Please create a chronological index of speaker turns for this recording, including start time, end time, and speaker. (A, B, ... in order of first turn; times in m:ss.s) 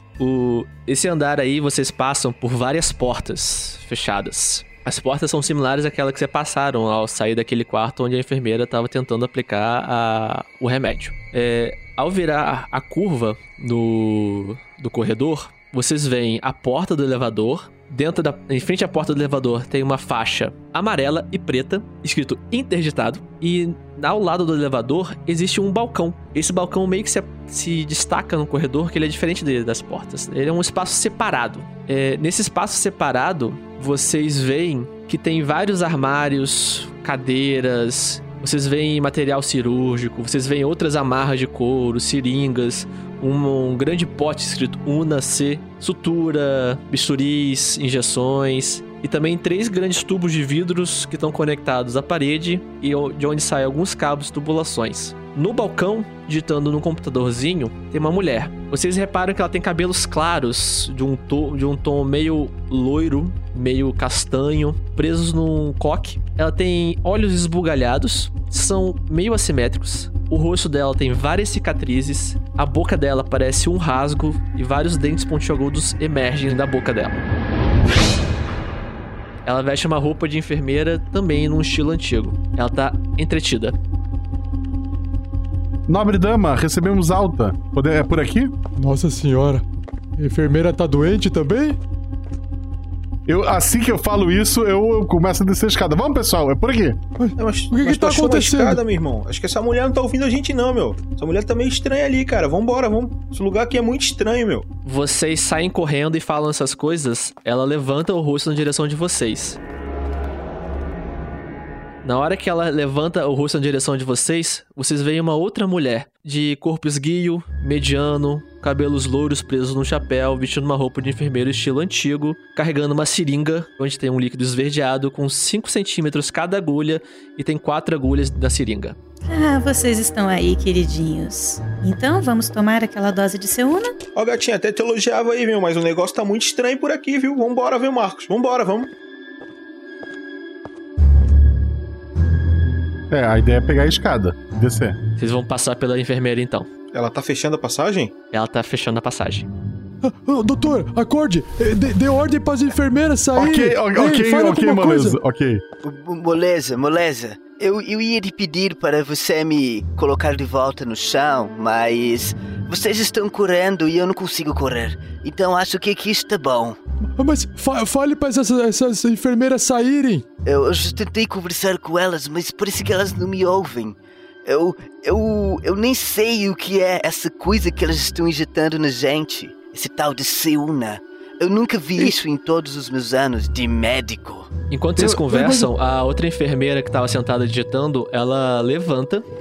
0:00.2-1:17.2 A
1:19.4-1:23.7 A
1:25.9-1:28.5 B
1:28.8-1:29.6 C
1:30.2-1:31.8 C
1:33.3-1:37.0 B
1:37.2-1:38.8 C
1:37.4-1:44.6 D
1:44.8-1:49.6 A
1:52.0-2:09.0 A
2:09.3-2:13.9 E
2:14.1-2:18.9 D
2:23.1-2:25.0 B
2:25.2-2:26.7 A
2:26.9-2:28.1 D
2:28.3-2:29.5 A
2:30.0-2:35.2 C
2:33.4-2:35.6 B
2:35.8-2:46.8 F
2:47.2-2:50.2 C
2:50.4-3:04.5 F
3:04.7-3:09.2 A
3:05.0-3:05.7 B